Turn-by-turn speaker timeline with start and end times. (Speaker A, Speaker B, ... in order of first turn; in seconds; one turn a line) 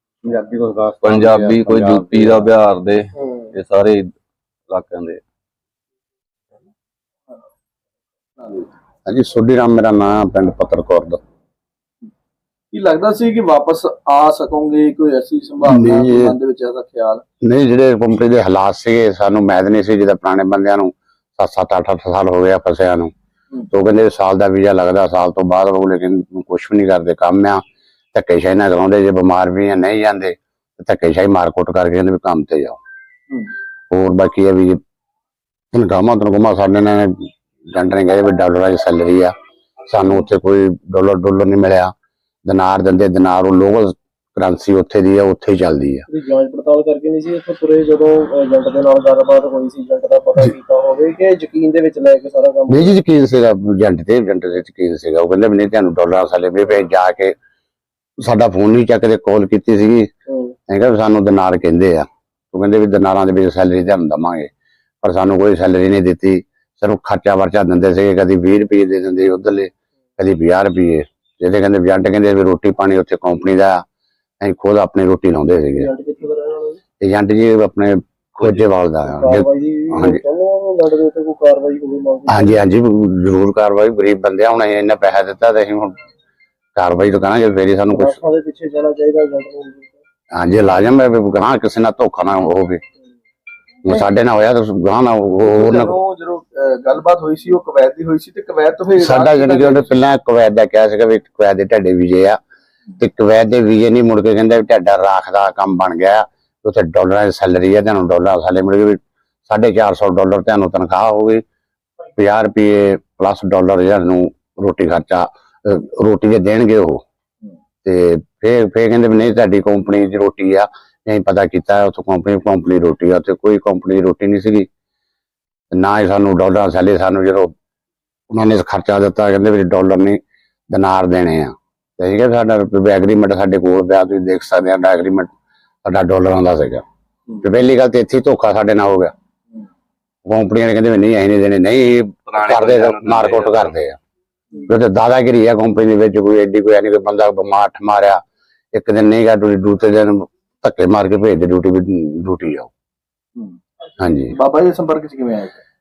Speaker A: 0.2-2.5
Speaker B: 1.0-4.0
Speaker C: 3.2-3.5
Speaker B: 4.7-5.2
Speaker C: 8.4-8.7
Speaker A: 9.1-11.2
Speaker C: 12.7-17.2
Speaker A: 15.6-16.4
Speaker A: 17.4-23.1
Speaker A: 23.7-27.6
Speaker A: 28.1-32.8
Speaker A: 33.9-34.8
Speaker A: 35.7-39.3
Speaker A: 39.9-41.9
Speaker A: 42.4-46.0
Speaker C: 46.1-53.0
Speaker A: 52.7-57.3
Speaker A: 58.2-60.1
Speaker C: 60.3-60.5
Speaker A: 60.7-64.5
Speaker A: 65.0-73.8
Speaker A: 74.4-75.9
Speaker C: 75.8-76.8
Speaker A: 77.0-80.2
Speaker C: 79.1-82.6
Speaker A: 82.3-86.0
Speaker A: 86.8-88.2
Speaker C: 87.9-90.0
Speaker A: 90.3-92.8
Speaker A: 93.8-95.9
Speaker C: 95.4-100.0
Speaker A: 99.0-102.4
Speaker A: 103.0-111.4
Speaker A: 112.2-117.0
Speaker A: 117.8-124.7
Speaker A: 125.7-127.5
Speaker A: 128.3-130.2
Speaker A: 130.7-135.3
Speaker A: 135.8-136.8
Speaker A: 137.4-139.1
Speaker A: 140.2-144.0
Speaker B: 142.3-143.8
Speaker A: 144.7-148.2
Speaker A: 148.7-152.7
Speaker A: 154.0-154.4
Speaker C: 154.3-155.6